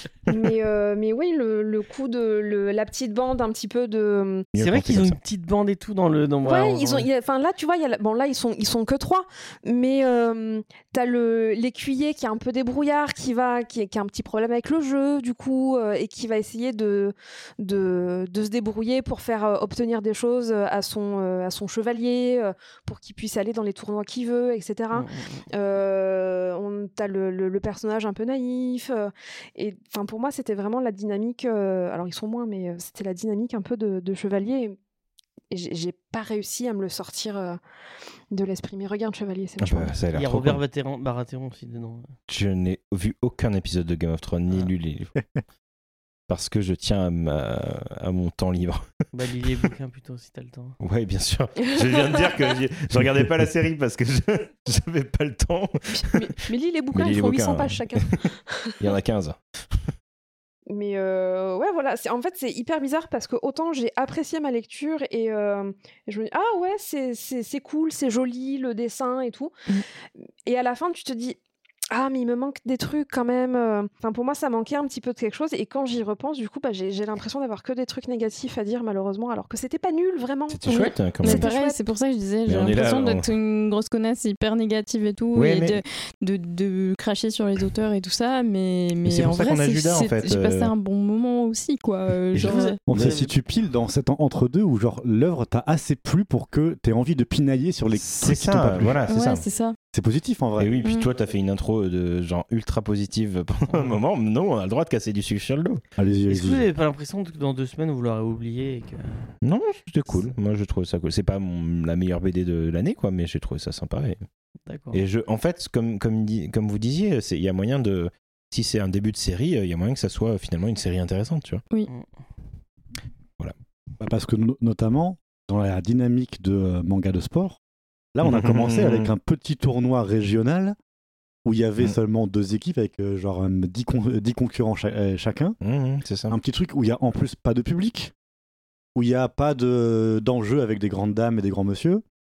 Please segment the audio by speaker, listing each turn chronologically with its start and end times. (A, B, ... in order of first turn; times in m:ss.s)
0:00.3-0:04.5 A
0:04.5-0:05.2 B
0:04.6-0:07.1 C
0:06.4-0:34.8 A
0:24.9-0:25.4 C
0:35.5-0:37.6 A
0:38.3-0:40.0 A
0:39.6-0:40.6 B
0:40.1-0:42.1 C
0:42.3-0:45.2 B
0:46.3-0:48.8 B
0:49.1-0:50.8 C
0:50.8-0:56.3 B
0:55.9-0:58.8 A
0:56.9-0:58.2 B
0:58.8-0:59.4 B
1:00.7-1:09.6 A
1:10.5-1:11.4 A
1:11.9-1:21.8 A
1:20.5-1:21.5 B
1:20.7-1:32.8 D
1:22.5-1:23.3 B
1:25.4-1:25.8 B
1:29.0-1:30.7 B
1:32.4-1:33.1 B
1:32.4-1:33.3 C
1:32.9-1:39.0 E
1:37.9-1:39.4 B
1:39.1-1:39.8 D
1:39.9-1:40.7 E
1:40.6-1:45.8 B
1:40.8-1:41.1 D
1:43.7-1:44.0 C
1:46.0-1:46.6 E
1:46.3-1:49.3 C
1:49.4-1:54.2 B
1:54.7-1:55.0 C
1:54.9-2:01.6 B
2:04.0-2:07.6 E
2:08.2-2:10.8 E
2:08.2-2:09.1 B
2:11.4-2:15.6 E
2:15.6-2:16.4 B
2:16.3-2:18.1 E
2:19.0-2:22.0 E